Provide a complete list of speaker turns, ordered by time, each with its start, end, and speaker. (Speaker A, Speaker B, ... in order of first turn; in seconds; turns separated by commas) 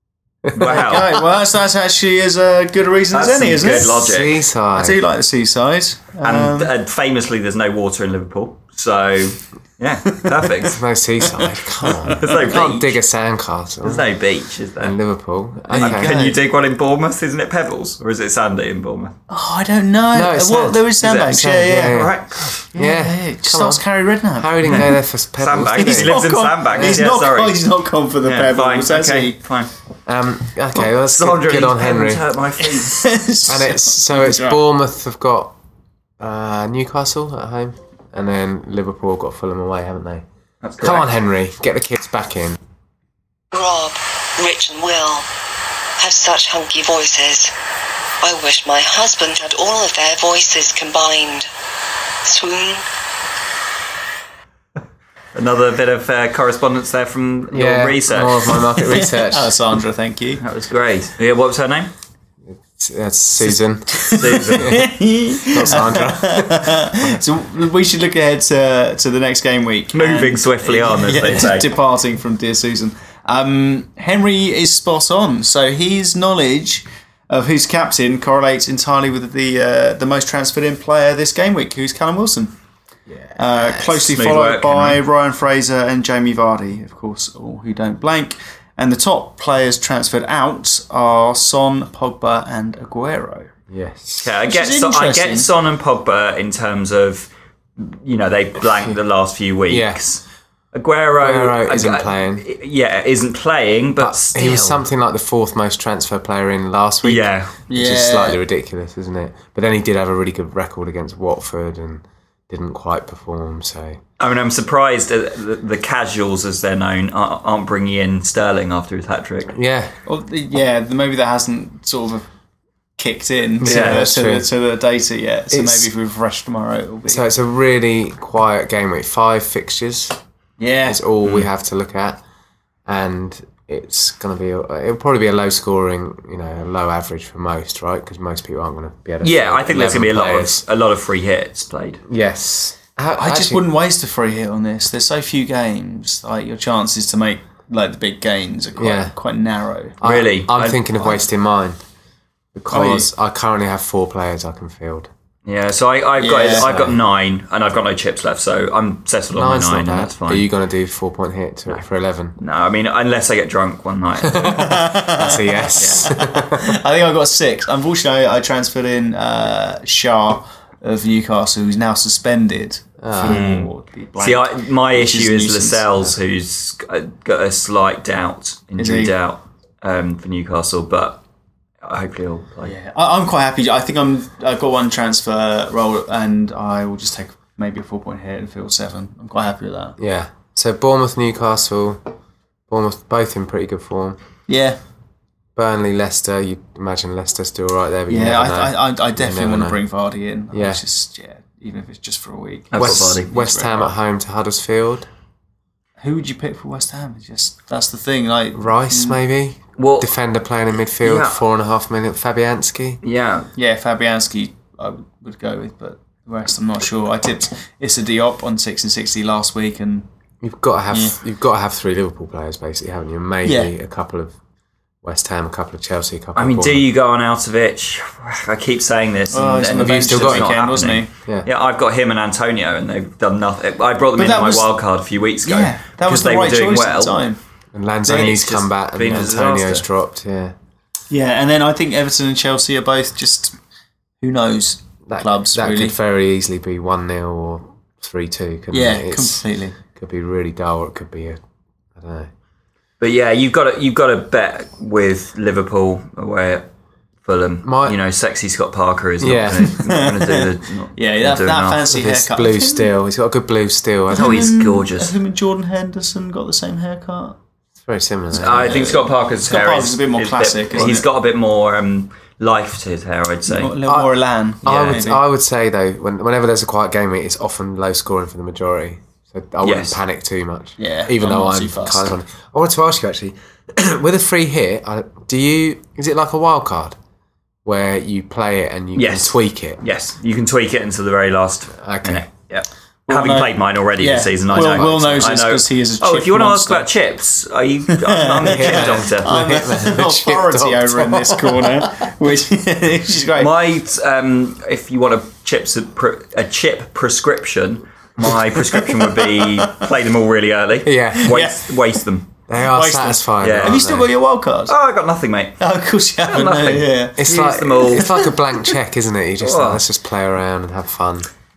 Speaker A: 0.5-1.2, Speaker B: 0.7-1.0, Speaker C: 0.7-4.0, Speaker A: 3.1-4.4, Speaker B: 3.9-5.0, Speaker C: 4.8-6.8, Speaker A: 6.2-10.8, Speaker C: 10.2-10.4, Speaker B: 10.7-14.1, Speaker A: 12.1-13.0, Speaker A: 13.8-15.0, Speaker B: 14.8-16.1, Speaker C: 15.7-16.4, Speaker A: 15.7-19.1, Speaker C: 19.3-22.1, Speaker B: 20.1-23.8, Speaker A: 21.0-21.3, Speaker A: 21.9-22.6, Speaker C: 22.7-24.9, Speaker B: 24.4-27.0, Speaker A: 25.4-27.6, Speaker C: 25.8-29.4, Speaker A: 28.2-29.7, Speaker B: 30.1-32.2, Speaker A: 30.8-33.0, Speaker C: 32.6-34.6, Speaker B: 33.5-35.6, Speaker B: 36.2-40.3, Speaker A: 40.6-41.1, Speaker B: 40.8-42.6, Speaker D: 43.5-45.3, Speaker D: 46.0-47.5, Speaker D: 48.2-51.5, Speaker D: 52.2-52.8, Speaker A: 55.3-58.4, Speaker B: 57.5-59.5, Speaker C: 58.8-60.4, Speaker A: 60.4-61.9, Speaker B: 62.5-64.9, Speaker C: 63.9-82.5, Speaker A: 64.1-64.9, Speaker B: 65.5-67.1, Speaker A: 69.9-71.7, Speaker C: 83.4-93.5, Speaker B: 83.4-84.0, Speaker A: 84.1-85.0, Speaker B: 93.7-94.3, Speaker A: 94.2-104.8, Speaker C: 94.5-95.5, Speaker B: 99.7-100.0, Speaker B: 101.2-102.4, Speaker B: 104.0-114.0, Speaker A: 107.0-107.5, Speaker C: 107.7-108.4, Speaker A: 114.2-119.6, Speaker B: 119.5-119.9, Speaker C: 120.1-122.3, Speaker C: 123.0-127.3, Speaker B: 123.6-124.5, Speaker A: 123.6-124.1, Speaker B: 125.5-125.9, Speaker B: 127.1-130.2, Speaker C: 130.6-131.0, Speaker B: 130.9-132.2, Speaker B: 132.9-140.6, Speaker A: 139.2-142.0, Speaker B: 142.1-143.6, Speaker C: 143.2-150.0, Speaker B: 148.8-149.1, Speaker B: 150.0-151.8, Speaker A: 150.0-150.6, Speaker C: 150.6-151.2, Speaker B: 152.6-155.1, Speaker C: 152.7-153.1, Speaker A: 155.5-160.5, Speaker C: 156.2-156.9, Speaker B: 156.7-156.9, Speaker B: 159.3-162.4, Speaker A: 162.4-164.6, Speaker B: 164.4-166.8, Speaker C: 164.5-165.7, Speaker A: 165.8-166.1, Speaker C: 166.5-176.1, Speaker B: 173.0-173.4, Speaker A: 173.3-173.7, Speaker A: 174.2-181.2, Speaker C: 178.8-179.2, Speaker A: 181.8-182.7, Speaker C: 182.6-190.0, Speaker B: 190.0-192.0, Speaker B: 192.7-194.2, Speaker C: 194.5-194.8, Speaker B: 195.6-199.8, Speaker C: 198.1-203.9, Speaker B: 200.5-200.8, Speaker A: 202.7-203.3, Speaker B: 202.8-205.1, Speaker C: 206.0-209.2, Speaker B: 208.5-213.0, Speaker A: 209.8-210.1, Speaker A: 211.0-211.4, Speaker A: 213.0-213.5, Speaker C: 213.6-220.1, Speaker B: 220.4-224.4, Speaker C: 220.9-221.2, Speaker C: 223.4-223.7, Speaker B: 225.0-226.9, Speaker A: 226.4-237.2, Speaker C: 229.3-231.1, Speaker B: 229.8-230.6, Speaker C: 234.2-234.7, Speaker C: 235.4-237.4, Speaker B: 237.8-240.6, Speaker C: 238.1-238.4, Speaker A: 238.1-239.8, Speaker C: 241.1-243.6, Speaker C: 244.2-245.9, Speaker B: 245.1-249.4, Speaker C: 248.7-249.8, Speaker B: 249.9-251.4, Speaker B: 252.0-252.3, Speaker A: 253.0-256.7, Speaker A: 257.2-261.8, Speaker B: 257.6-258.0, Speaker B: 259.2-259.8, Speaker C: 259.7-262.9, Speaker B: 261.9-264.5, Speaker C: 264.1-267.4, Speaker A: 264.1-265.1, Speaker B: 267.8-268.8, Speaker A: 268.3-273.7, Speaker C: 268.7-271.1, Speaker C: 273.5-275.2, Speaker B: 274.6-287.0, Speaker A: 274.7-275.0, Speaker A: 279.6-280.0, Speaker C: 280.8-282.1, Speaker B: 287.6-289.8, Speaker A: 289.0-299.3, Speaker B: 291.8-292.3, Speaker C: 293.1-296.9, Speaker B: 294.5-295.3, Speaker C: 298.0-303.6, Speaker B: 298.4-301.9, Speaker A: 303.4-312.3, Speaker C: 308.7-309.8, Speaker B: 310.9-311.4, Speaker C: 311.3-312.0, Speaker B: 312.5-314.1, Speaker C: 312.6-314.7, Speaker A: 313.4-313.9, Speaker A: 314.7-315.6, Speaker C: 315.6-317.2, Speaker A: 316.3-318.2, Speaker B: 317.2-321.3, Speaker C: 318.0-318.3, Speaker A: 319.4-319.8